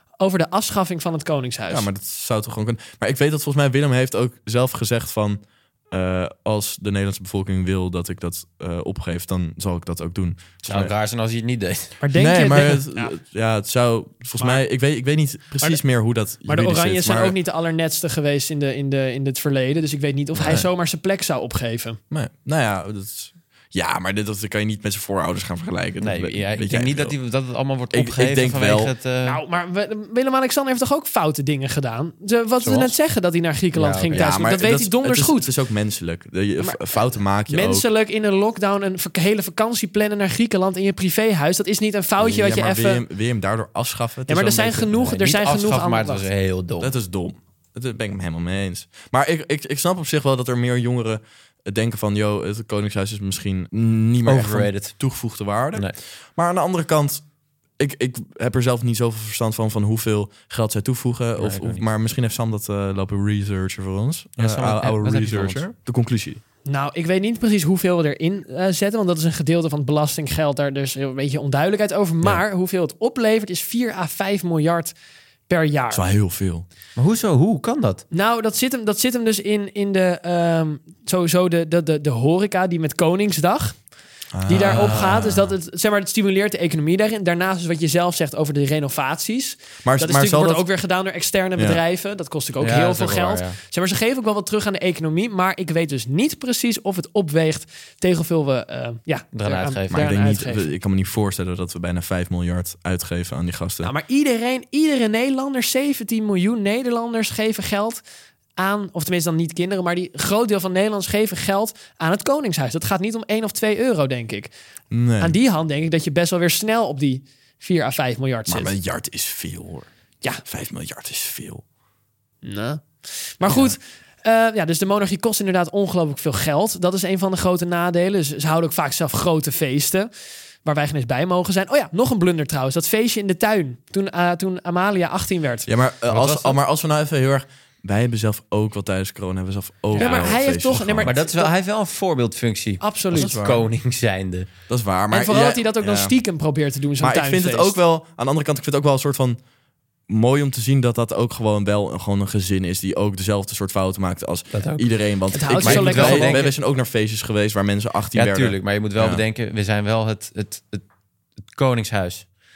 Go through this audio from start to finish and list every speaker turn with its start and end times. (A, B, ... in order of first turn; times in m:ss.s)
0:00.2-0:01.9 A
0:01.7-0:10.9 B
0:10.6-0:12.0 C
0:12.0-0:13.1 A
0:12.1-0:17.4 B
0:16.4-0:22.0 A
0:20.3-0:20.6 B
0:22.1-0:27.2 B
0:26.0-0:29.4 C
0:27.9-0:28.9 B
0:29.2-0:35.5 A
0:33.7-0:34.3 C
0:34.1-0:37.8 B
0:36.6-0:43.0 A
0:42.2-0:45.1 B
0:44.3-0:46.2 A
0:44.9-0:46.9 C
0:46.8-0:57.2 B
0:54.2-0:55.1 C
0:57.8-1:06.4 B
1:01.4-1:01.9 C
1:04.4-1:05.7 C
1:06.6-1:14.9 A
1:15.5-1:16.0 A
1:15.9-1:16.6 B
1:17.0-1:18.0 C
1:18.1-1:23.8 A
1:24.3-1:25.5 B
1:24.4-1:40.7 A
1:29.8-1:30.7 B
1:31.6-1:31.8 B
1:32.6-1:33.6 C
1:39.3-1:40.0 C
1:39.9-1:43.9 B
1:43.8-1:48.0 A
1:48.6-1:54.5 A
1:54.9-1:55.4 B
1:55.2-1:58.8 A
1:58.5-1:59.9 B
2:00.4-2:01.6 B
2:02.4-2:10.1 A
2:03.4-2:03.7 B
2:10.6-2:15.7 A
2:15.6-2:21.1 B
2:16.1-2:16.6 C
2:19.9-2:21.5 A
2:20.0-2:20.3 C
2:21.0-2:24.5 C
2:22.8-2:23.4 A
2:23.1-2:23.7 B
2:24.7-2:26.1 B
2:25.1-2:27.8 A
2:27.0-2:29.4 B
2:30.1-2:39.2 B
2:34.5-2:34.9 C
2:35.3-2:36.5 A
2:35.5-2:36.5 C
2:38.1-2:40.8 C
2:41.4-2:42.3 C